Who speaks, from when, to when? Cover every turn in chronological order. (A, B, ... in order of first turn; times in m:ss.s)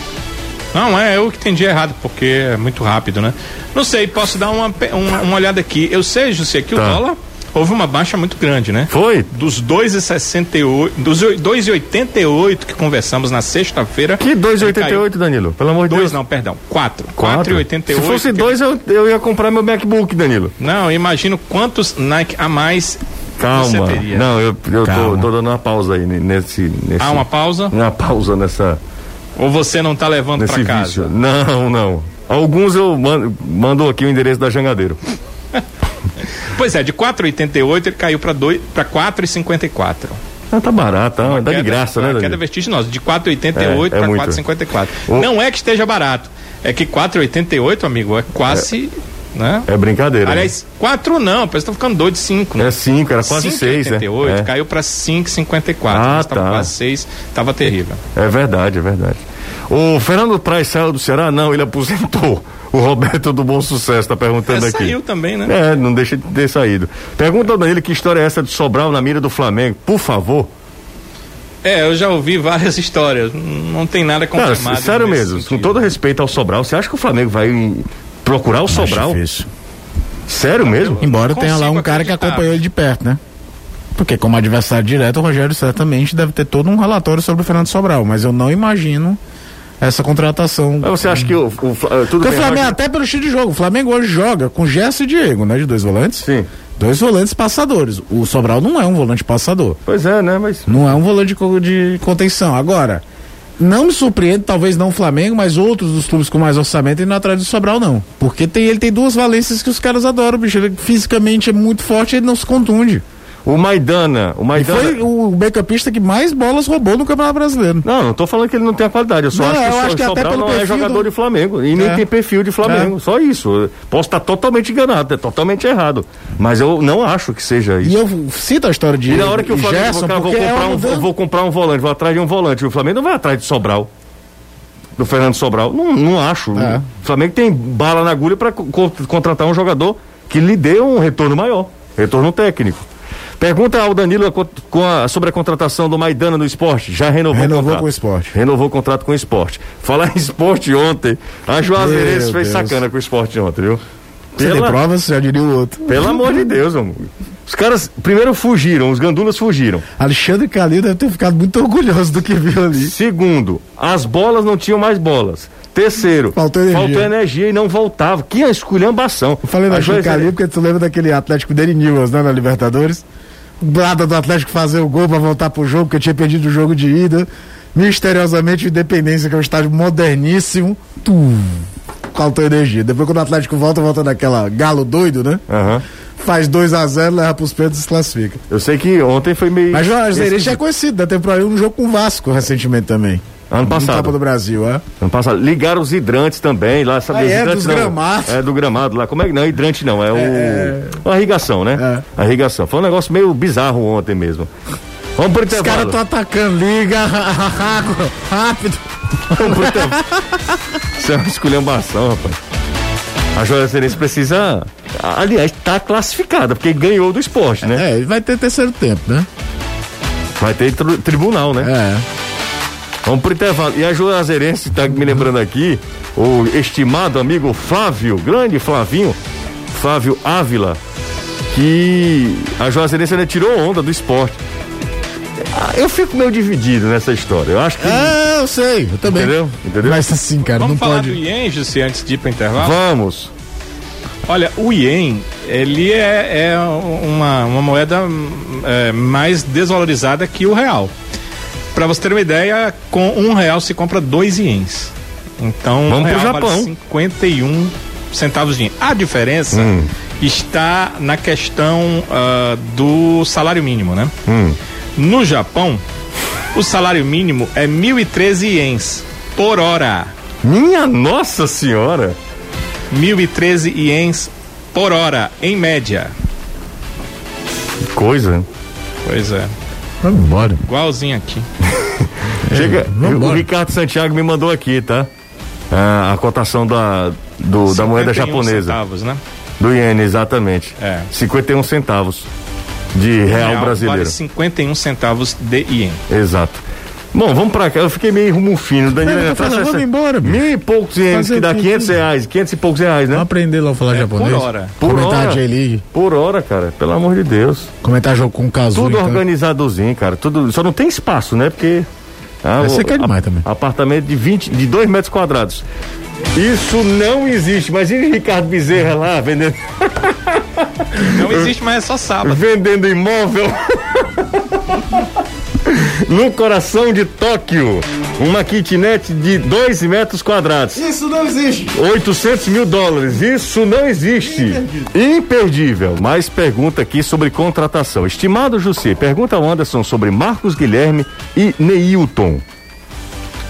0:00.7-0:15.0 A
0:06.8-0:07.0 B
0:08.9-0:09.3 B
0:14.2-0:16.2 B
0:15.9-0:18.6 A
0:17.2-0:20.5 B
0:20.6-0:23.0 A
0:23.4-0:28.8 B
0:23.5-0:24.3 A
0:24.8-0:25.3 C
0:27.0-0:27.7 A
0:29.4-0:31.1 A
0:30.4-0:35.0 B
0:36.5-0:40.2 A
0:40.5-0:42.4 B
0:41.2-0:49.7 A
0:43.6-0:44.4 B
0:49.7-0:50.5 B
0:50.2-0:58.0 A
0:52.6-0:54.5 B
0:55.9-0:56.7 B
0:58.1-1:10.5 B
1:04.4-1:05.5 A
1:11.6-1:15.9 A
1:14.4-1:19.2 B
1:18.7-1:19.5 C
1:20.3-1:21.0 B
1:20.6-1:22.6 A
1:21.0-1:23.2 C
1:23.9-1:29.2 C
1:29.8-1:31.4 C
1:30.8-1:32.7 B
1:32.2-1:39.8 C
1:36.2-1:36.5 B
1:39.8-1:40.8 B
1:40.7-1:43.0 C
1:43.6-1:53.0 C
1:53.4-1:55.0 B
1:54.5-1:57.8 C
1:57.8-2:07.9 B
1:59.3-2:01.1 C
2:01.7-2:02.0 C
2:02.6-2:02.9 C
2:07.8-2:11.1 C
2:09.1-2:13.9 B
2:15.0-2:22.9 B
2:16.5-2:16.8 C
2:23.4-2:33.8 B
2:27.3-2:28.3 C
2:31.7-2:32.8 C
2:34.3-2:34.8 B
2:34.4-2:36.6 C
2:35.9-2:39.8 B
2:40.0-2:42.9 C
2:42.8-2:50.3 B
2:46.3-2:47.1 C
2:49.4-2:53.0 C
2:53.6-3:05.4 C
3:05.5-3:05.8 B
3:06.2-3:08.4 C
3:08.5-3:10.6 B
3:09.7-3:14.8 C
3:13.5-3:14.1 B
3:15.0-3:24.5 B
3:17.1-3:18.4 C
3:20.1-3:21.0 C
3:21.8-3:22.0 C
3:25.2-3:26.0 B
3:25.5-3:30.6 C
3:29.3-3:30.0 B
3:31.0-3:32.4 B
3:33.3-3:37.8 B
3:37.6-3:39.3 C
3:40.4-3:41.7 B
3:41.6-3:42.0 C
3:43.0-3:49.2 B
3:49.7-3:50.8 B
3:51.5-3:54.4 B
3:55.5-3:58.1 B
3:57.8-4:01.2 C
3:59.0-4:00.0 B
4:00.6-4:02.8 A
4:02.6-4:03.3 B
4:04.2-4:10.9 A
4:11.7-4:24.1 A
4:15.9-4:16.7 B
4:19.5-4:19.9 B
4:24.3-4:24.6 B
4:25.0-4:25.8 A
4:26.5-4:30.1 A
4:30.4-4:32.2 B
4:32.9-4:36.1 A
4:37.9-4:38.5 B
4:39.0-4:39.5 A
4:40.0-4:40.6 C
4:40.6-4:41.4 A
4:41.6-4:45.1 B
4:42.5-4:43.5 C
4:45.7-4:48.8 B
4:47.7-4:49.2 A
4:49.6-4:52.3 B
4:50.8-4:51.1 A
4:52.9-4:54.1 B
4:53.3-4:56.0 A
4:56.1-5:03.2 B
4:58.9-5:00.5 C
5:01.1-5:02.0 C
5:03.1-5:05.8 C
5:03.9-5:04.8 A
5:04.8-5:07.7 B
5:07.8-5:09.2 C
5:08.7-5:11.9 B
5:12.4-5:15.6 B
5:12.6-5:13.4 C
5:16.3-5:21.5 B
5:21.0-5:22.4 A
5:22.2-5:25.0 B
5:25.6-5:30.8 B
5:30.7-5:31.8 C
5:31.7-5:42.4 B
5:34.3-5:34.9 C